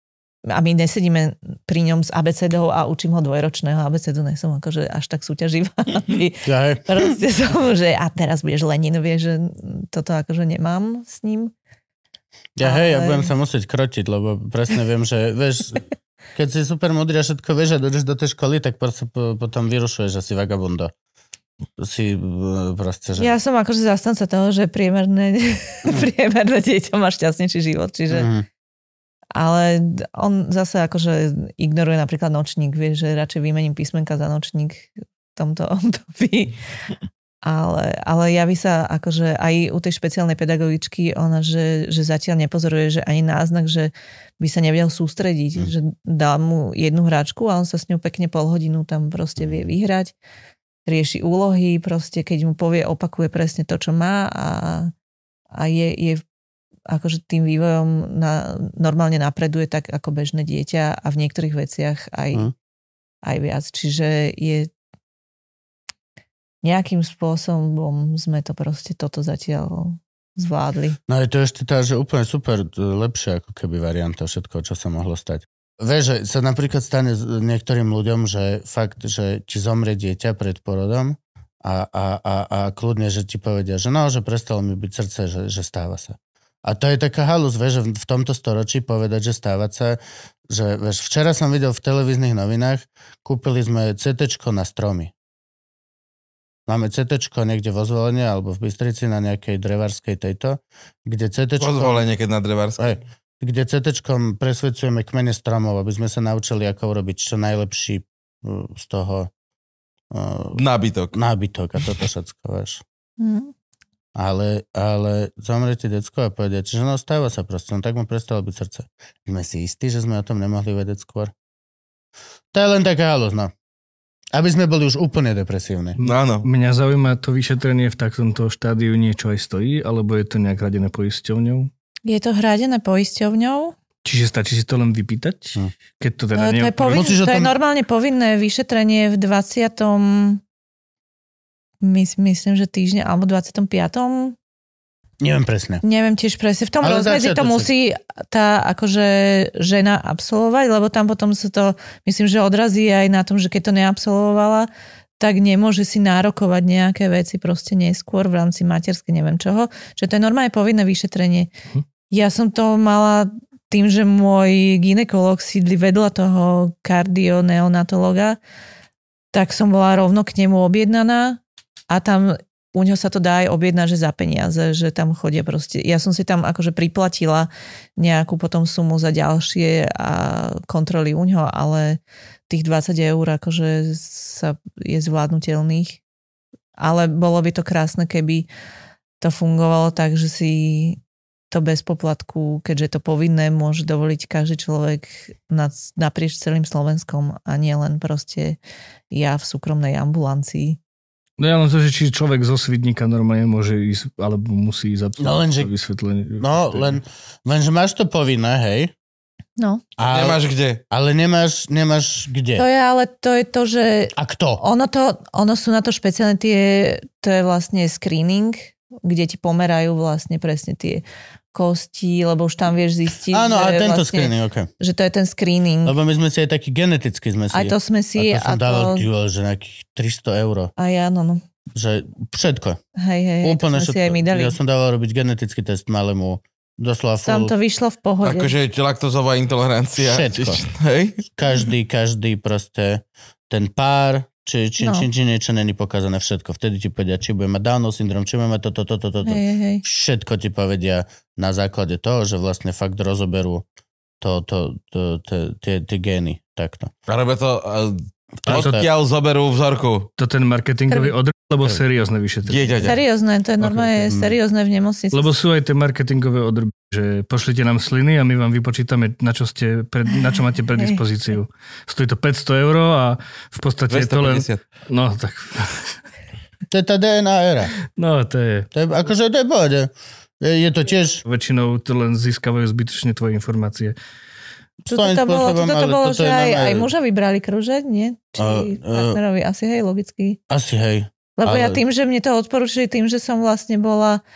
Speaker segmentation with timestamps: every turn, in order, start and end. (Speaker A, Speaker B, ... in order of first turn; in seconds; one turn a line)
Speaker A: 0.5-11.5
Speaker B: 6.5-7.2
Speaker B: 12.6-15.8
Speaker A: 12.6-13.3
Speaker B: 16.4-20.9
Speaker B: 21.8-23.3
Speaker A: 23.2-28.3
Speaker B: 28.1-28.5
Speaker A: 29.4-36.5
Speaker A: 37.4-50.1
Speaker A: 50.9-54.9
Speaker A: 55.5-56.2
Speaker A: 56.9-62.5
Speaker A: 63.2-64.7
Speaker A: 66.6-71.0
Speaker B: 71.1-95.1
Speaker B: 96.7-102.0
Speaker C: 101.6-102.8
Speaker B: 102.8-109.3
Speaker B: 110.1-112.8
Speaker C: 110.6-111.1
Speaker A: 113.2-113.5
Speaker B: 114.2-121.3
Speaker B: 122.5-123.5
Speaker B: 124.3-126.0
Speaker D: 126.0-131.7
Speaker C: 126.0-126.5
Speaker A: 132.1-133.8
Speaker D: 134.0-137.1
Speaker A: 136.3-140.4
Speaker B: 136.9-137.5
Speaker A: 141.8-144.4
Speaker B: 145.2-145.8
Speaker A: 145.8-154.7
Speaker B: 146.8-147.7
Speaker A: 155.2-161.5
Speaker A: 162.1-168.4
Speaker A: 169.3-182.0
Speaker A: 182.5-186.0
Speaker A: 186.8-188.5
Speaker A: 189.2-191.0
Speaker A: 191.5-198.6
Speaker A: 199.1-200.8
Speaker D: 201.4-206.9
Speaker B: 205.2-205.7
Speaker B: 206.4-208.9
Speaker A: 209.6-209.8
Speaker B: 210.0-212.7
Speaker C: 210.1-210.8
Speaker A: 212.6-225.9
Speaker B: 214.2-214.6
Speaker B: 223.3-224.7
Speaker B: 225.8-230.7
Speaker A: 227.5-229.1
Speaker A: 230.8-231.4
Speaker B: 231.7-232.8
Speaker A: 233.0-234.6
Speaker B: 233.4-237.5
Speaker A: 237.3-238.5
Speaker C: 238.2-241.2
Speaker B: 240.0-240.6
Speaker B: 241.3-253.6
Speaker A: 244.8-245.1
Speaker A: 249.2-249.8
Speaker B: 254.2-256.9
Speaker C: 257.1-260.1
Speaker B: 258.4-258.9
Speaker D: 258.5-258.8
Speaker D: 260.2-263.0
Speaker A: 260.9-261.1
Speaker C: 262.5-262.9
Speaker A: 262.8-265.4
Speaker D: 263.6-264.1
Speaker D: 265.1-275.9
Speaker C: 273.9-274.6
Speaker B: 276.7-277.7
Speaker D: 277.9-278.7
Speaker B: 278.7-281.2
Speaker D: 281.2-283.9
Speaker B: 284.8-286.9
Speaker A: 284.9-290.4
Speaker B: 288.4-289.2
Speaker B: 290.5-291.8
Speaker A: 291.4-294.2